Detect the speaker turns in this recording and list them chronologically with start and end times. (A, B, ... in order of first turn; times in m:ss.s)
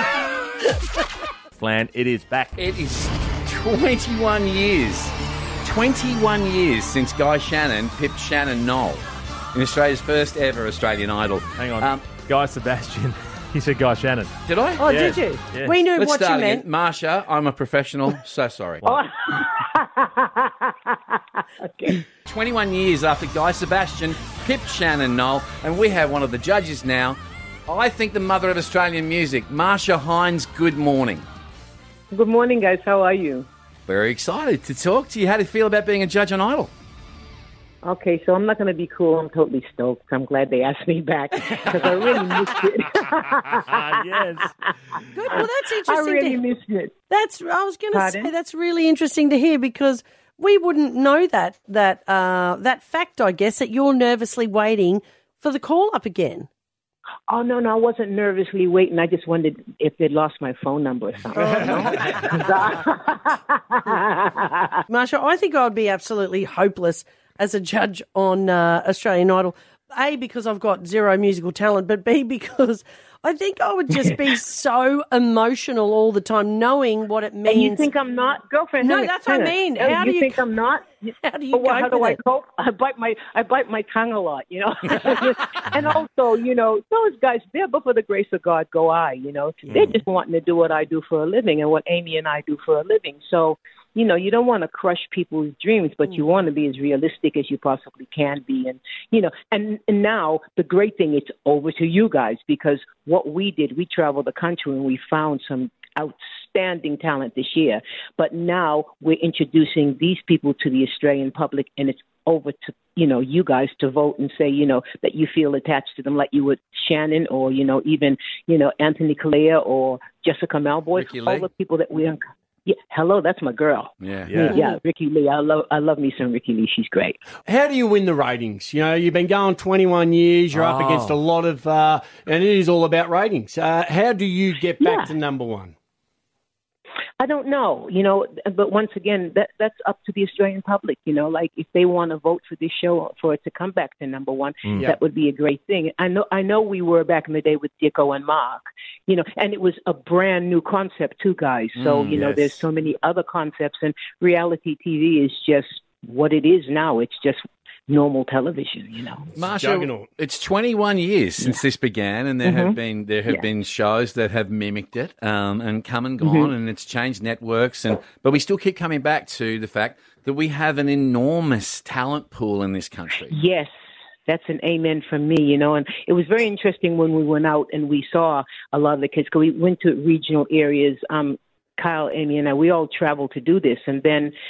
0:01.6-0:02.6 A
0:02.6-0:12.0 B
0:11.6-0:15.8 A
0:14.5-0:15.1 B
0:14.8-0:16.6 C
0:15.9-0:18.9 B
0:18.8-0:22.0 D
0:22.2-0:31.2 B
0:32.1-0:33.5 D
0:33.9-0:36.7 B
0:37.8-0:44.2 D
0:41.8-0:42.3 A
0:43.5-0:44.6 A
0:45.1-0:46.4 C
0:45.3-0:46.9 D
0:47.1-0:56.5 C
0:47.9-0:48.3 D
0:57.3-1:04.8 D
1:01.4-1:02.0 C
1:01.5-1:01.9 E
1:04.9-1:17.9 C
1:17.4-1:20.9 D
1:18.8-1:20.4 C
1:21.1-1:22.2 C
1:21.5-2:07.2 D
2:00.9-2:01.5 B
2:04.0-2:04.3 B
2:04.3-2:04.6 A
2:07.4-2:15.7 E
2:10.5-2:11.2 A
2:14.8-2:15.1 D
2:17.2-2:39.3 D
2:31.8-2:32.4 B
2:32.1-2:32.4 A
2:39.4-2:53.4 B
2:39.5-2:40.1 E
2:42.4-2:42.8 D
2:46.2-2:46.5 D
2:53.3-2:53.7 D
2:54.3-3:04.3 D